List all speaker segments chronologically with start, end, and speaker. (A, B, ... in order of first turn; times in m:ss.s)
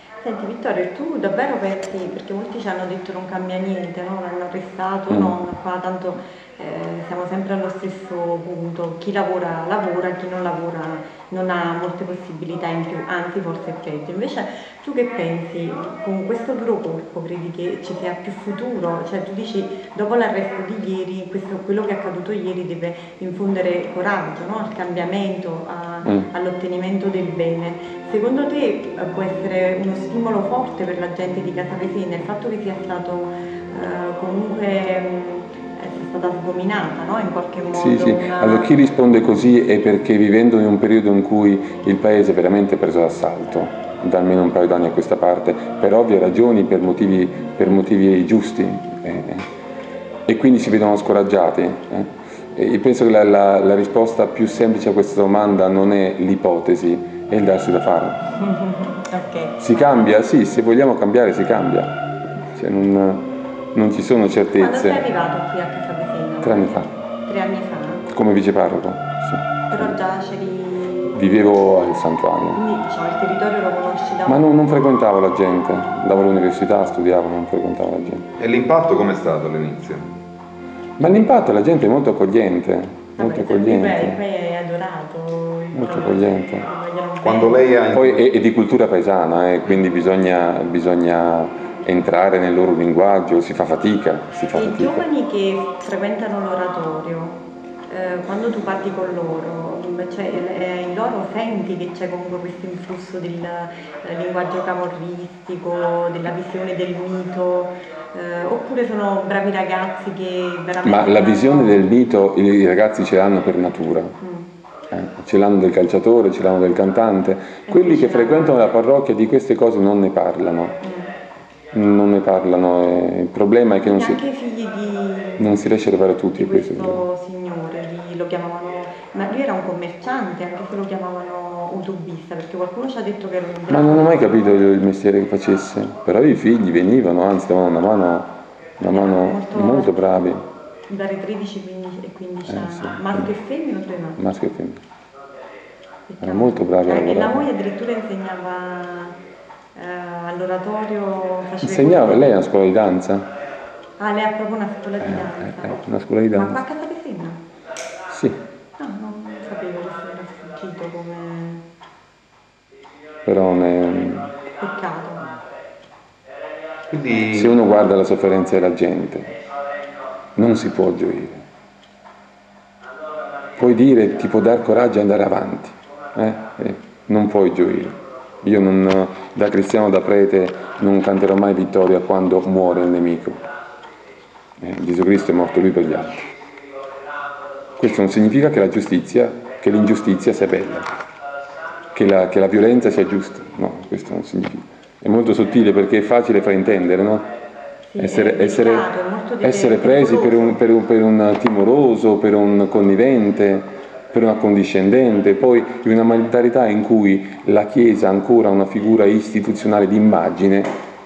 0:00.2-0:38.8 A
0:05.1-0:05.4 B
0:37.7-0:49.5 B
0:50.3-0:58.2 B
0:58.4-1:00.0 A
0:59.6-1:02.0 B
1:02.5-1:05.1 B
1:04.6-1:08.1 A
1:06.4-1:06.9 B
1:08.1-1:10.0 B
1:09.7-1:11.1 A
1:11.1-1:12.6 B
1:12.5-1:14.5 A
1:14.3-1:18.3 B
1:18.4-1:20.1 C
1:21.0-1:24.2 B
1:23.2-1:27.8 A
1:25.7-1:26.7 B
1:27.2-1:28.3 C
1:27.9-1:35.0 B
1:34.5-1:51.9 A
1:50.8-1:54.2 B
1:54.2-1:54.5 A
1:54.9-2:00.8 B
1:57.7-1:58.8 A
2:00.8-2:01.1 A
2:01.7-2:04.2 B
2:03.8-2:14.6 A
2:05.4-2:07.0 B
2:13.7-2:20.5 B
2:18.8-2:20.4 A
2:20.9-2:24.2 A
2:22.5-2:23.3 B
2:24.2-2:24.8 B
2:26.1-2:29.2 A
2:26.2-2:27.5 B
2:29.8-2:32.4 A
2:31.6-2:33.3 B
2:34.0-2:35.8 A
2:35.0-2:36.6 B
2:36.3-2:37.4 A
2:38.1-2:38.4 B
2:38.8-2:41.6 A
2:43.2-2:44.3 B
2:44.6-2:45.3 A
2:46.9-2:47.6 C
2:47.3-2:49.4 B
2:50.4-2:51.4 B
2:53.6-3:03.4 B
3:04.6-3:06.3 B
3:07.8-3:10.9 B
3:11.9-3:17.3 B
3:17.9-3:20.6 A
3:18.0-3:18.9 B
3:19.4-3:30.7 B